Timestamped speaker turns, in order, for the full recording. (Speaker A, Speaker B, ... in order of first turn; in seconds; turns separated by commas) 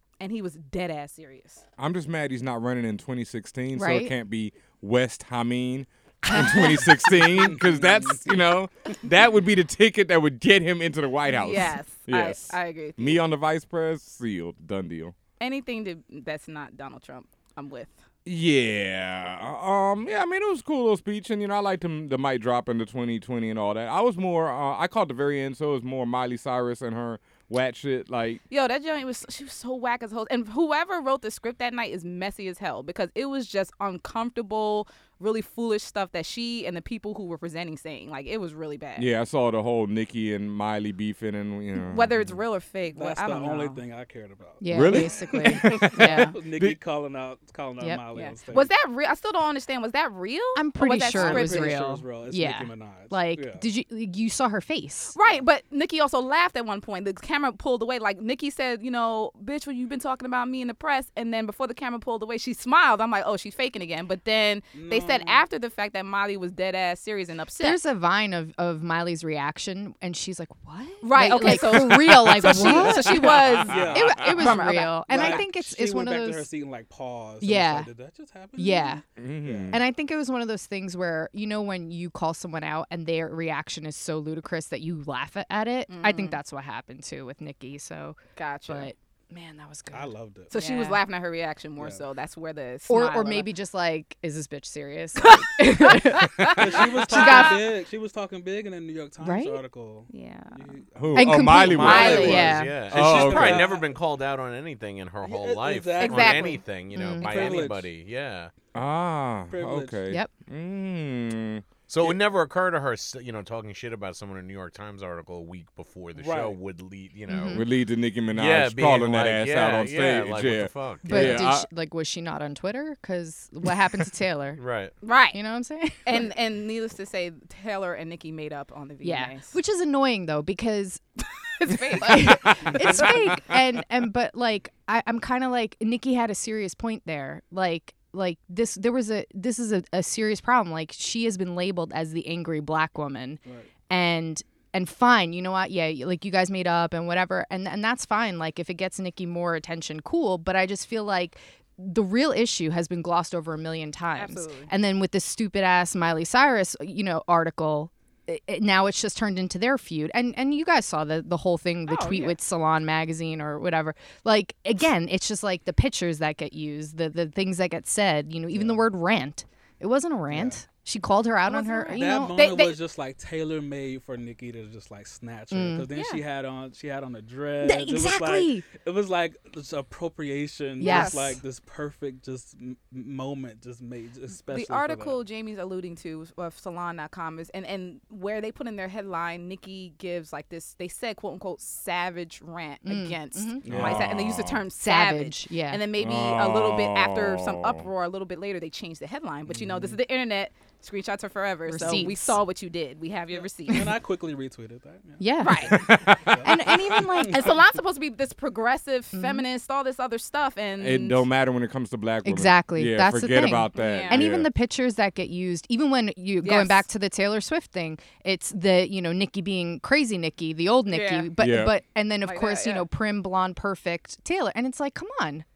Speaker A: 0.2-1.6, Speaker B: 1.8-15.1, Speaker C: 3.7-4.1, Speaker C: 6.3-7.3, Speaker D: 7.3-8.2, Speaker A: 11.3-13.2, Speaker A: 15.4-18.0, Speaker B: 18.2-28.4, Speaker A: 28.5-39.1, Speaker B: 39.0-42.1, Speaker A: 41.8-43.8, Speaker D: 42.9-48.7, Speaker C: 44.6-46.3, Speaker B: 44.7-46.8, Speaker A: 48.1-51.8, Speaker C: 50.5-55.1, Speaker D: 51.0-53.6, Speaker A: 55.1-67.8, Speaker D: 64.7-65.4, Speaker C: 67.6-76.5, Speaker A: 71.0-75.4, Speaker B: 71.5-74.2, Speaker D: 73.7-79.8, Speaker C: 77.4-77.9, Speaker C: 78.6-79.0, Speaker B: 79.2-79.8, Speaker C: 79.7-91.0, Speaker A: 85.9-86.4, Speaker A: 88.4-88.9, Speaker D: 89.9-90.5, Speaker A: 90.5-93.5, Speaker D: 91.8-92.0, Speaker C: 92.9-97.6, Speaker A: 95.3-97.5, Speaker D: 96.6-104.0, Speaker C: 99.2-99.6, Speaker A: 100.1-100.7, Speaker B: 101.0-103.7, Speaker C: 101.2-102.8, Speaker A: 101.7-102.5, Speaker E: 101.8-108.5, Speaker D: 105.2-106.6, Speaker A: 106.0-106.6, Speaker C: 106.9-107.5, Speaker D: 107.2-107.9, Speaker B: 108.7-112.2, Speaker D: 109.5-110.0, Speaker E: 111.9-117.6, Speaker D: 116.2-116.6, Speaker C: 117.3-117.7, Speaker B: 117.5-121.7, Speaker E: 118.3-121.4, Speaker C: 121.0-124.6, Speaker E: 124.6-124.9, Speaker A: 125.0-125.4, Speaker C: 125.3-126.3, Speaker A: 126.0-129.6, Speaker C: 129.0-131.0, Speaker A: 131.6-133.3, Speaker C: 131.6-172.4, Speaker A: 154.1-154.7, Speaker A: 161.9-162.4, Speaker D: 168.5-168.8, Speaker D: 170.3-170.6, Speaker A: 171.5-172.8, Speaker D: 171.9-185.2, Speaker C: 175.5-175.9, Speaker A: 175.9-176.2, Speaker C: 177.6-178.7, Speaker C: 180.8-181.3, Speaker A: 180.8-181.4, Speaker A: 184.5-203.9, Speaker C: 192.8-193.9, Speaker D: 193.6-194.1, Speaker B: 193.7-194.6, Speaker C: 194.8-195.8, Speaker B: 196.0-197.9, Speaker D: 199.5-200.0, Speaker C: 201.7-202.4, Speaker D: 203.7-205.5, Speaker C: 205.2-205.8, Speaker A: 205.4-205.8, Speaker B: 205.7-206.2, Speaker D: 206.3-207.5, Speaker C: 206.4-207.6, Speaker A: 207.3-211.2, Speaker C: 209.1-209.4, Speaker B: 210.8-214.5, Speaker C: 212.2-225.4, Speaker A: 213.7-214.2, Speaker A: 216.4-216.8, Speaker A: 220.9-221.3, Speaker B: 221.4-221.8, Speaker A: 222.2-222.8